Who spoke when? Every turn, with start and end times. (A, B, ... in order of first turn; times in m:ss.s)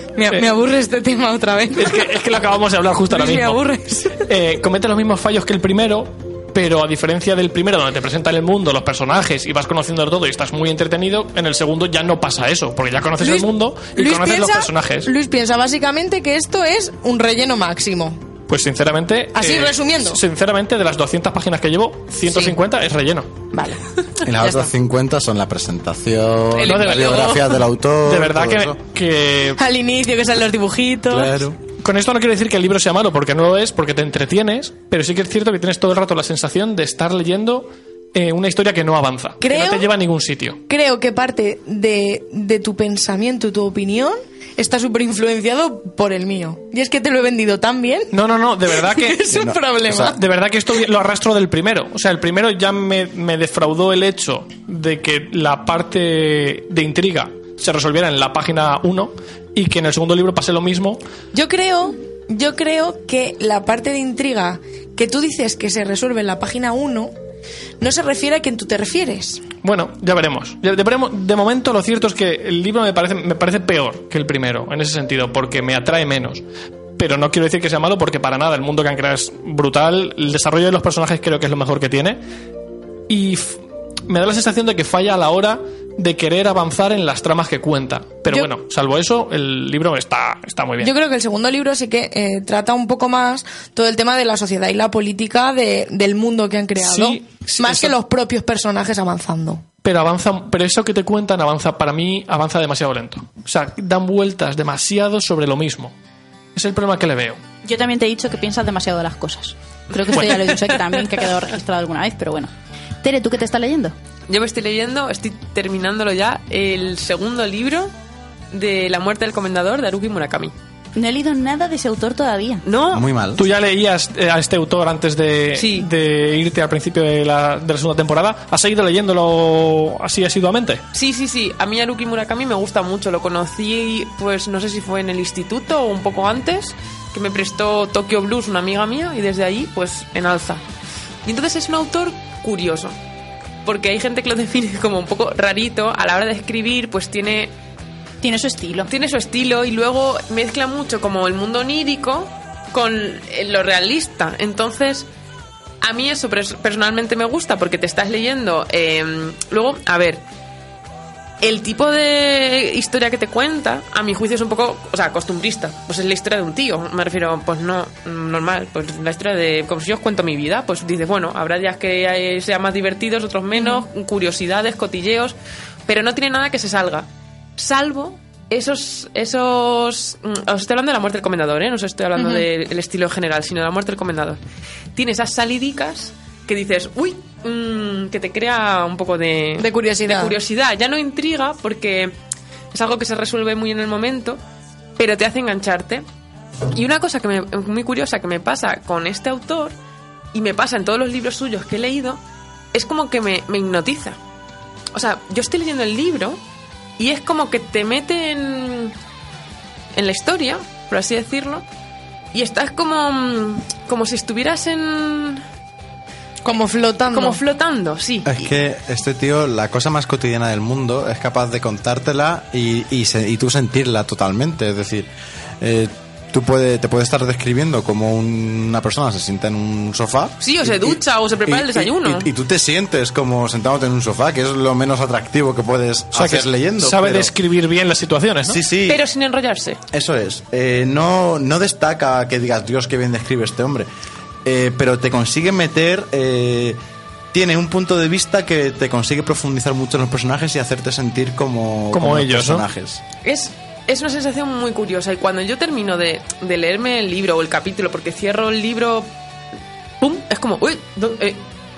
0:00.2-0:02.1 A
0:01.8-0:03.6 B
0:03.1-0:04.3 A
0:04.3-0:15.1 B
0:13.2-0:18.2 A
0:18.5-0:23.3 B
0:19.4-0:20.2 A
0:22.3-0:22.6 A
0:24.2-0:28.8 C
0:24.4-0:24.7 A
0:26.6-0:27.4 D
0:26.6-0:29.6 B
0:29.6-0:31.3 A
0:31.1-0:31.6 C
0:31.8-0:40.6 B
0:39.4-0:39.9 A
0:40.7-0:48.1 A
0:48.1-0:49.3 B
0:48.8-0:50.2 A
0:49.3-0:50.2 C
0:50.0-1:01.0 B
1:01.3-1:07.1 A
1:07.8-1:09.4 A
1:09.6-1:16.4 B
1:17.0-1:22.2 B
1:23.1-1:30.9 B
1:28.3-1:28.5 A
1:30.8-1:39.6 A
1:36.8-1:37.9 B
1:39.8-1:45.9 B
1:46.6-1:47.4 B
1:47.6-1:52.5 E
1:53.0-1:53.9 E
1:54.3-1:57.9 D
1:58.5-2:00.5 D
2:01.0-2:02.6 E
2:02.6-2:03.1 D
2:02.9-2:03.5 C
2:03.4-2:10.8 B
2:05.6-2:05.9 D
2:10.9-2:20.6 D
2:21.2-2:23.0 D
2:23.6-2:27.5 D
2:28.2-2:28.9 E
2:28.9-2:35.1 D
2:35.8-2:40.2 D
2:41.4-2:55.4 D
2:53.6-2:53.8 A
2:55.9-3:04.4 D
3:02.2-3:02.5 A
3:05.0-3:12.1 D
3:09.6-3:10.4 A
3:12.7-3:14.4 D
3:15.0-3:16.0 D
3:16.7-3:19.8 D
3:20.3-3:22.2 D
3:22.7-3:24.2 D
3:24.9-3:26.4 D
3:27.0-3:29.0 D
3:30.0-3:31.6 D
3:32.3-3:35.4 D
3:36.4-3:37.4 A
3:37.1-3:38.4 D
3:38.3-3:45.1 C
3:45.6-3:57.3 C
3:50.4-3:52.3 D
3:56.1-3:58.6 B
3:58.4-3:59.0 C
3:58.9-3:59.8 D
3:59.9-4:03.9 C
4:04.4-4:06.8 C
4:07.3-4:13.0 C
4:11.9-4:12.6 B
4:13.2-4:19.1 D
4:20.0-4:21.4 D